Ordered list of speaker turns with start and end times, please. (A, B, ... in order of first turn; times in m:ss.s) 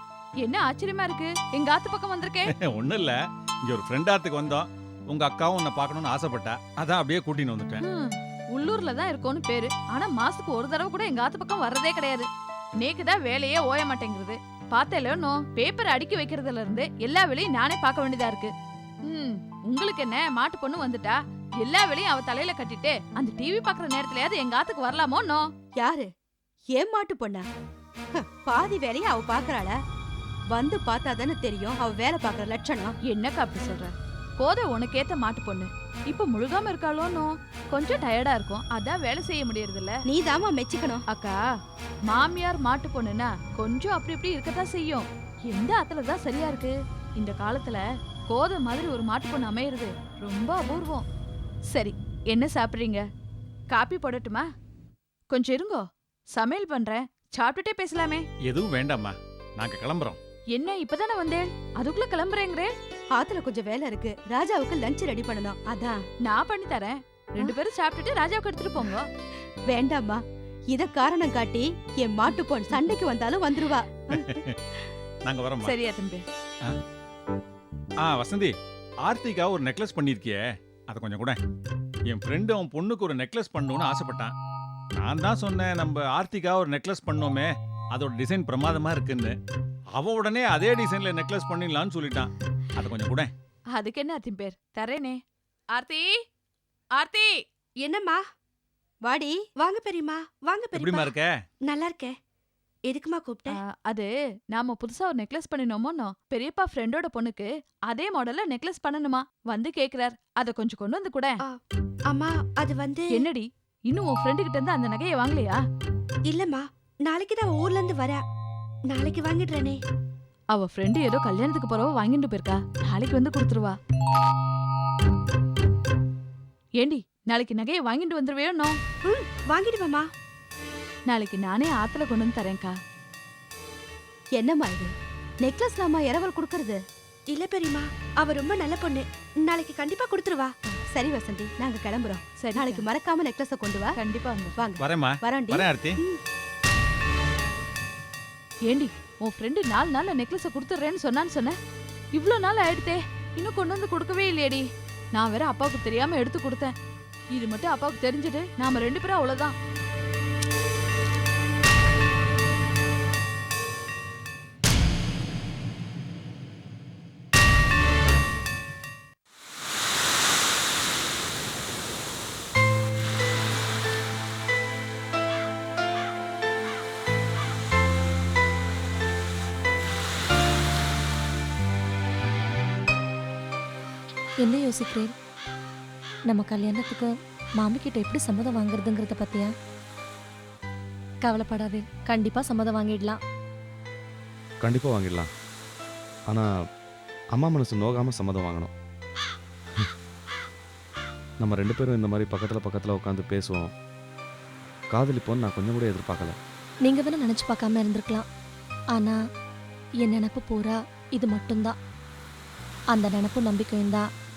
0:00.4-0:02.5 A
0:02.6-0:07.8 B
0:07.8-0:12.3 A
0:12.8-0:18.5 A
0:19.1-0:25.4 A
0:25.7-0:26.1 C
0:26.7-0:27.5 C
0:28.1-0:29.8 C
0:30.5-0:33.0 C
0:33.0-0:40.0 A
0:40.0-0:41.0 C
0:41.1-0:41.4 A
0:42.1-0:51.0 A
0:51.7-0:53.0 A
0:53.7-0:54.4 A
0:55.3-0:58.2 A
0:58.5-1:00.2 B
1:00.5-1:02.7 A
1:03.1-1:06.0 C
1:06.2-1:09.1 A
1:09.7-1:14.2 C
1:15.3-1:15.8 B
1:15.7-1:16.2 C
1:18.0-1:18.5 B
1:19.0-1:20.4 B
1:20.9-1:21.4 B
1:22.1-1:24.3 B
1:25.0-1:29.3 B
1:30.0-1:33.3 B
1:33.7-1:35.2 A
1:35.7-1:36.2 A
1:37.0-1:37.4 A
1:37.8-1:38.3 C
1:39.0-1:41.1 C
1:40.8-1:41.3 B
1:41.6-1:42.2 C
1:42.8-1:43.6 C
1:43.5-1:51.4 A
1:51.4-1:53.2 C
1:53.1-1:55.6 A
1:56.3-1:58.2 C
1:58.9-1:59.8 C
2:00.5-2:03.8 A
2:06.8-2:08.8 A
2:09.0-2:10.1 C
2:11.1-2:12.8 A
2:14.3-2:24.0 C
2:22.4-2:22.9 A
2:24.0-2:24.6 A
2:24.6-2:26.2 C
2:24.8-2:26.0 B
2:28.6-2:31.5 A
2:32.1-2:36.7 A
2:37.3-2:39.5 A
3:04.4-3:05.1 D
3:06.3-3:09.5 D
3:11.2-3:13.2 D
3:14.6-3:15.3 E
3:17.3-3:18.7 E
3:21.4-3:23.7 E
3:24.9-3:26.4 E
3:26.8-3:28.2 D
3:30.0-3:31.8 D
3:32.9-3:34.1 D